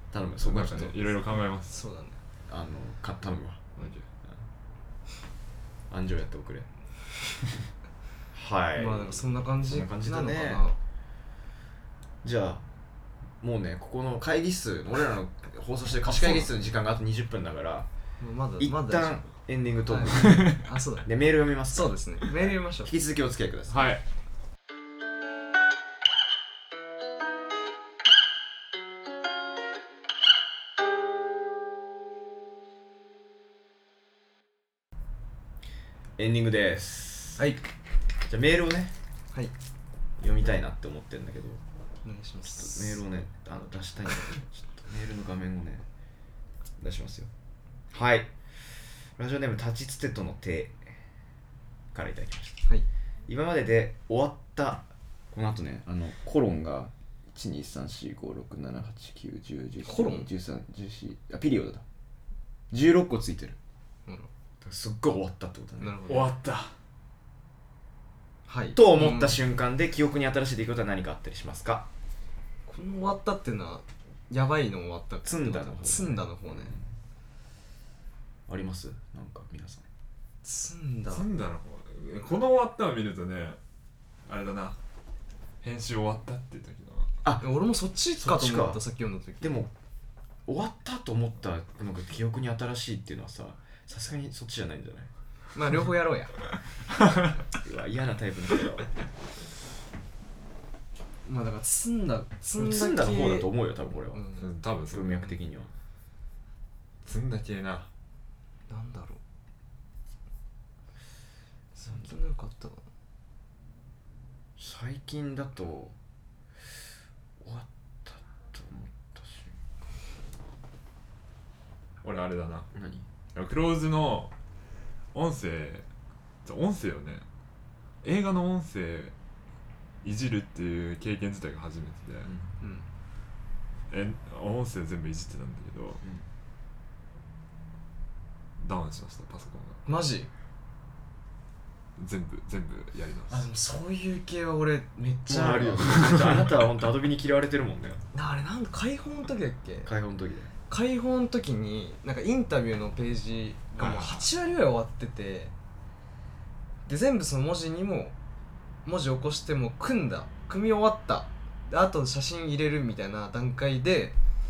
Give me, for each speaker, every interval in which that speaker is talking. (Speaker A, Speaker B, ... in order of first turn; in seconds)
Speaker A: 0.1-1.2, 2.5-3.7, 5.9-6.7, 8.3-10.6, 12.2-12.6, 13.4-17.9, 18.6-23.9, 36.2-37.5, 38.2-38.9, 40.2-41.6, 42.5-45.9, 46.8-47.3, 47.9-50.9, 51.9-52.6, 53.3-61.8, 62.7-63.6, 64.6-66.0, 68.7-71.9, 75.2-76.8, 78.5-79.8, 87.2-87.5, 88.2-88.8, 89.4-89.7, 90.5-95.1, 97.5-98.9, 102.6-104.2, 104.9-105.7, 114.6-115.9, 117.4-119.5, 122.7-123.0, 145.3-148.0, 149.8-150.5, 153.8-154.2
Speaker B: 0.4-1.8, 3.8-4.0, 23.7-24.0, 66.1-66.7, 81.1-83.6, 84.2-84.8, 85.6-87.1, 104.4-105.2, 107.0-107.9, 122.0-122.7, 123.3-124.3, 125.1-125.9, 126.4-127.2, 128.0-129.1, 130.0-132.3, 133.9-136.0, 138.6-139.8, 142.0-143.4
Speaker C: 1.7-2.2, 8.8-10.8, 16.1-16.5, 18.2-19.2, 19.9-21.1, 21.7-22.9, 37.4-37.6, 42.0-43.0, 59.8-60.3, 65.8-66.3, 68.5-69.4, 72.7-76.7, 80.4-81.3, 87.4-89.6, 95.5-96.3, 101.2-103.5, 104.1-104.5, 108.7-109.2, 111.8-112.8, 132.6-132.8, 139.8-140.3, 143.3-146.2, 148.1-149.9, 150.7-155.5, 156.9-158.1, 158.8-164.2